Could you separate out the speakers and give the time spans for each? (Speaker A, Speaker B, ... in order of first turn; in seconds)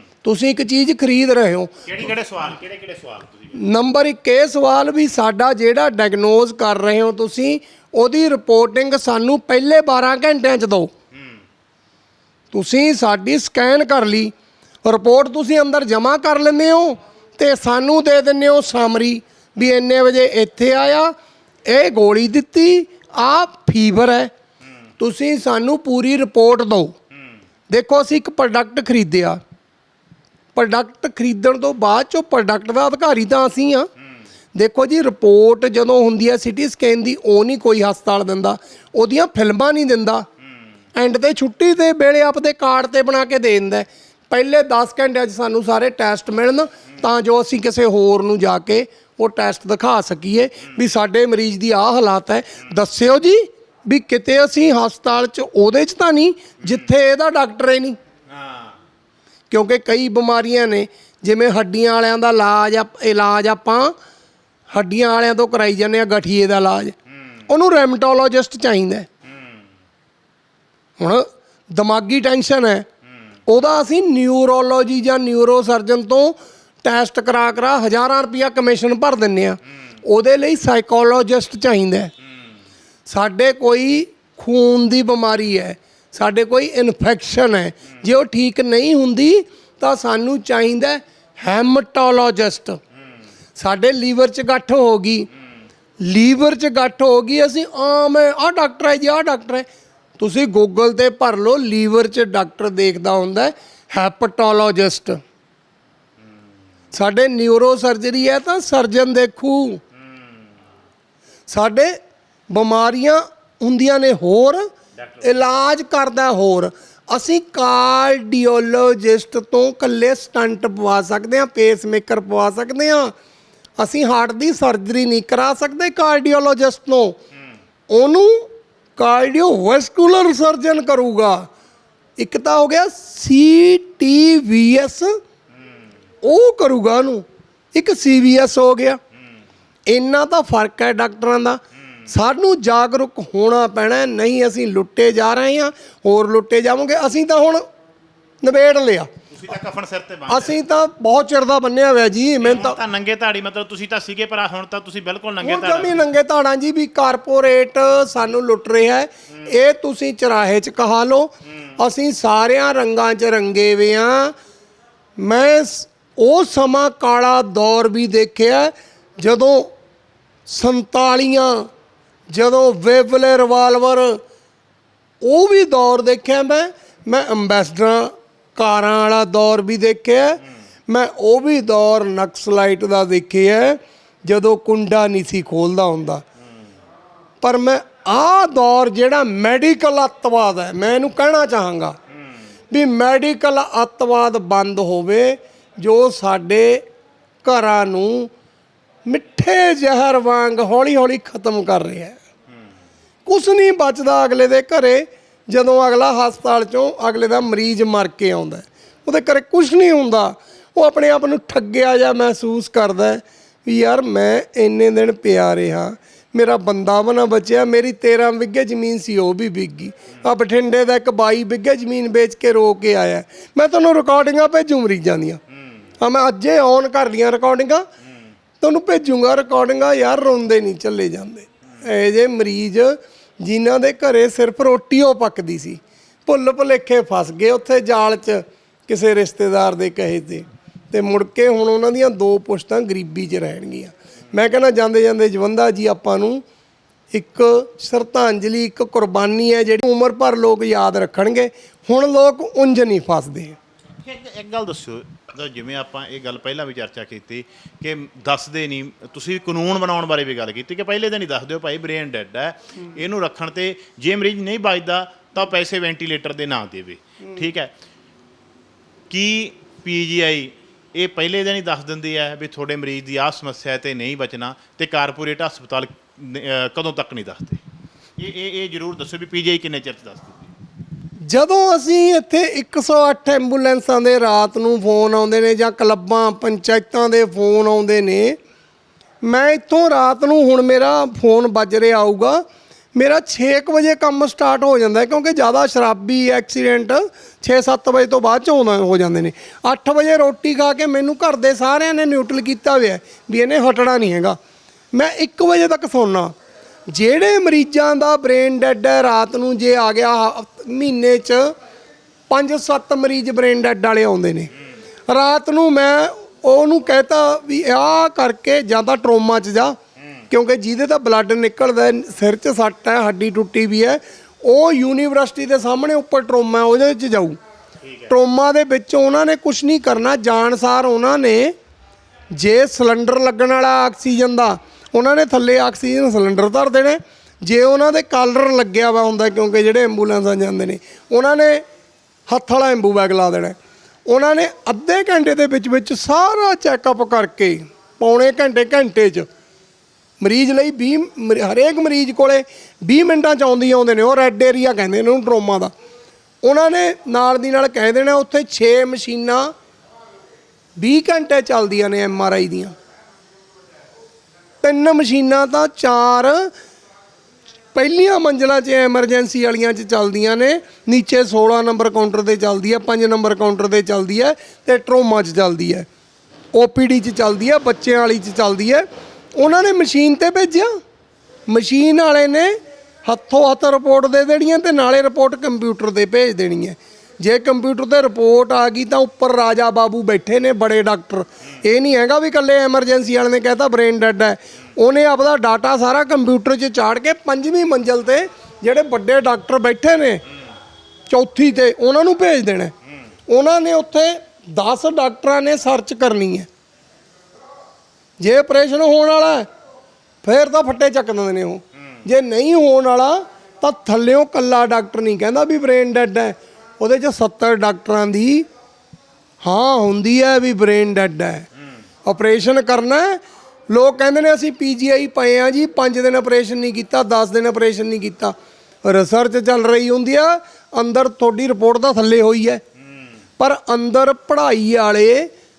Speaker A: 0.2-1.8, 3.5-10.9, 12.5-14.3, 14.8-21.1, 21.7-24.3, 25.0-26.9, 27.7-29.4, 30.6-33.9, 34.5-40.3, 41.0-58.0, 59.5-64.0, 64.7-67.0, 67.5-69.1, 71.0-72.9, 73.5-82.1, 83.1-92.8, 93.6-95.3, 96.0-99.7, 100.2-105.2, 106.9-109.8, 111.5-112.0, 112.5-114.7, 115.2-123.1, 123.8-127.2, 127.9-131.5, 132.2-135.2, 136.2-139.0, 139.9-147.6, 148.4-149.1, 150.3-152.8, 155.4-164.3, 165.2-169.7, 170.5-171.7, 172.3-174.2, 175.2-186.2, 187.4-192.0, 192.7-196.8, 197.4-198.3, 199.1-202.2, 203.3-225.4, 226.0-227.9, 228.6-246.4, 247.1-253.6, 281.2-288.4, 289.2-292.4, 293.0-304.4, 304.9-306.3, 306.9-311.5, 312.3-314.5, 315.1-319.8, 320.3-327.4, 328.1-331.5, 332.3-341.6, 342.3-343.6, 344.1-349.3, 350.2-355.7, 356.4-359.5, 360.8-362.8, 364.6-366.5, 367.8-375.9, 376.5-380.7, 381.5-400.2, 401.1-402.7, 403.3-406.5, 408.2-409.5, 410.2-418.5, 419.4-421.5, 422.1-432.6, 433.4-435.3
Speaker B: 1.9-3.5, 11.1-11.4, 58.3-58.8, 69.3-69.6, 149.3-150.6, 152.4-156.0, 254.0-267.7, 269.1-277.6, 278.2-280.5, 327.8-328.1